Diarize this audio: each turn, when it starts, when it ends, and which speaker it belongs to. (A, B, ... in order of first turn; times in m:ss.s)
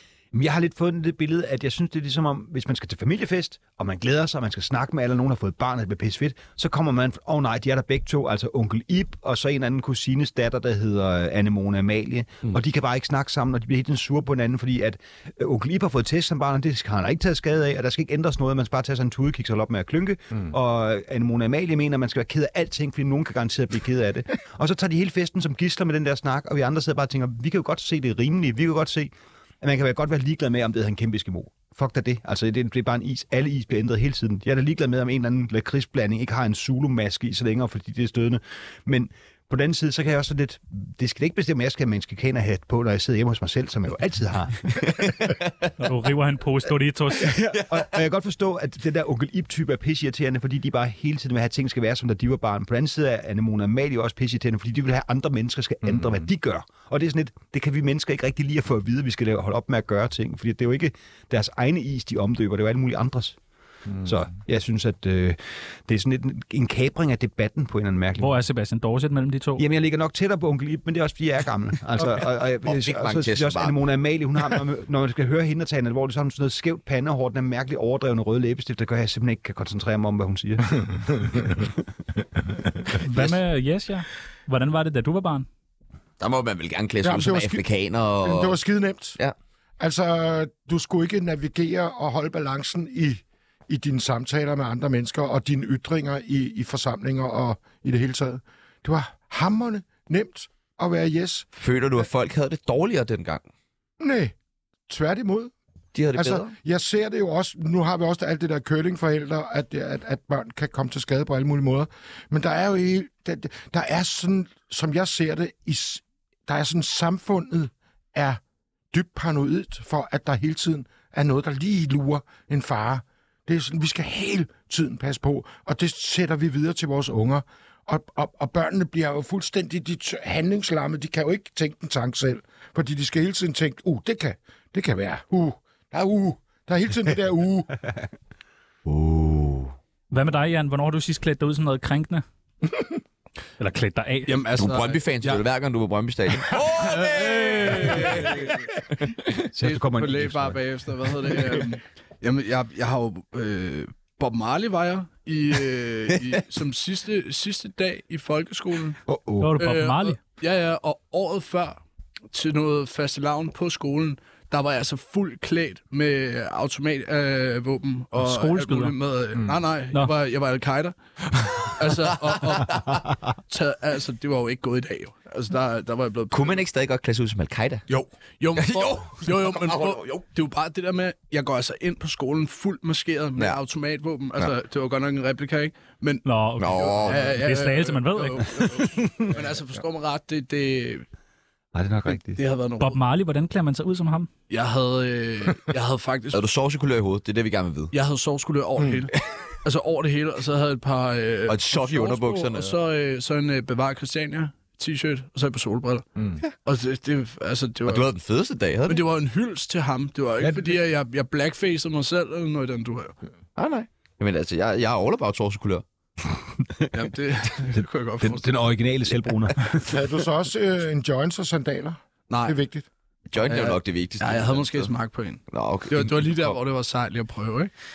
0:00.3-0:45.1 A
0:45.0-0:45.3 B
0:45.8-0:47.4 C
0:47.2-1:03.4 A
1:04.0-1:08.4 A
1:08.2-1:09.6 C
1:09.6-1:21.7 A
1:12.6-1:13.8 B
1:22.9-1:25.5 C
1:26.2-1:28.6 B
1:27.0-1:27.6 D
1:28.2-1:29.2 D
1:29.8-1:41.5 D
1:41.6-1:43.4 B
1:44.0-1:44.3 D
1:44.9-1:45.5 D
1:45.9-1:46.5 B
1:46.1-1:58.4 D
1:58.9-2:17.9 D
2:18.9-2:19.7 B
2:20.1-2:22.2 C
2:23.6-2:24.3 C
2:24.3-2:25.4 E
2:24.6-2:29.0 B
2:26.4-2:28.7 E
2:29.5-2:31.6 A
2:29.6-2:39.0 E
2:39.1-2:39.5 A
2:39.4-2:40.2 C
2:39.6-2:41.8 E
2:42.3-2:56.6 E
2:48.1-2:48.9 C
2:56.3-2:57.8 B
2:57.9-3:11.0 E
2:58.6-3:00.2 B
3:06.2-3:08.5 C
3:06.6-3:07.3 B
3:11.7-3:12.4 A
3:12.3-3:13.0 E
3:12.8-3:14.3 C
3:14.5-3:16.4 E
3:16.3-3:17.9 B
3:17.9-3:26.0 E
3:21.5-3:22.8 B
3:26.6-3:28.1 E
3:27.8-3:29.0 B
3:28.9-3:33.2 E
3:30.4-3:30.7 A
3:33.6-3:35.8 B
3:36.9-3:38.5 E
3:37.7-3:40.0 A
3:39.8-3:42.8 D
3:42.3-3:42.6 E
3:43.3-3:44.9 B
3:43.4-3:47.7 E
3:45.5-3:46.6 B